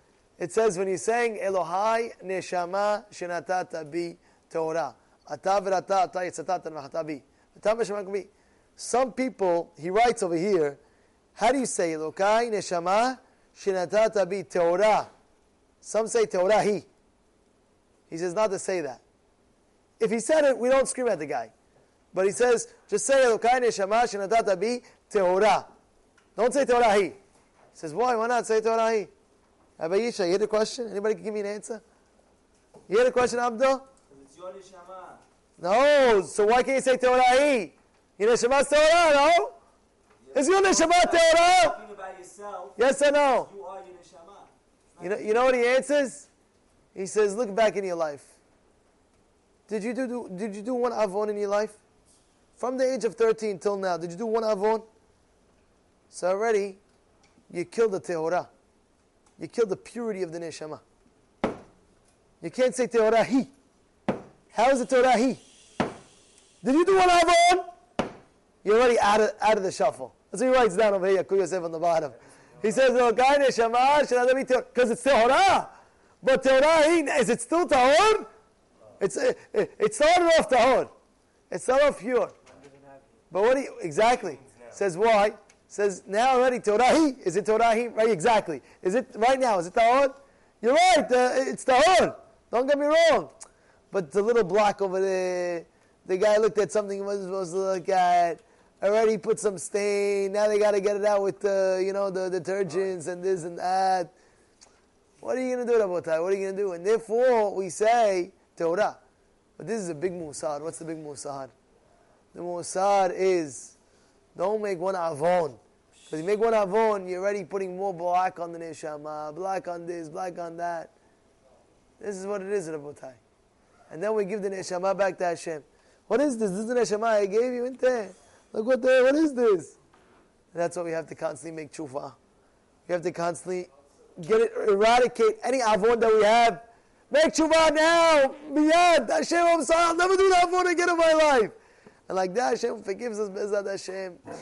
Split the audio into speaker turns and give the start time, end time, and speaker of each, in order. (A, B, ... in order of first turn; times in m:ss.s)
0:00.4-0:10.8 A
0:11.4-0:15.1 A
0:15.8-0:16.9 A
0:18.1-0:19.0 A
0:20.0-0:21.5 A
0:22.1-0:25.7 A
0:26.4-0:27.2 A
0:27.7-0:29.1 A
0:29.8-0:31.8 A
0:32.9-0:33.8 A
0:34.1-0:35.2 B
0:35.6-0:39.5 A
0:40.3-0:42.8 B
0:40.3-0:41.8 A
0:42.8-0:43.5 A
0:43.4-0:45.2 B
0:45.0-0:46.3 A
0:46.9-0:48.3 A
0:49.7-0:51.8 A
0:52.6-0:54.9 A
0:56.1-0:56.8 A
0:57.5-0:58.5 A
0:59.4-1:00.8 A
1:02.4-1:03.5 A
1:04.5-1:05.4 A
1:06.6-1:07.7 A
1:08.6-1:18.3 A
1:19.0-1:20.9 A
1:21.5-1:22.4 A
1:23.3-1:33.3 A
1:33.9-1:44.1 A
1:45.2-1:49.0 A
1:49.6-1:51.5 A
1:52.3-1:53.8 A
1:54.4-2:00.9 A
2:02.0-2:03.2 A
2:03.9-2:09.8 A
2:10.5-2:12.2 A
2:12.9-2:21.6 A
2:22.1-2:24.2 A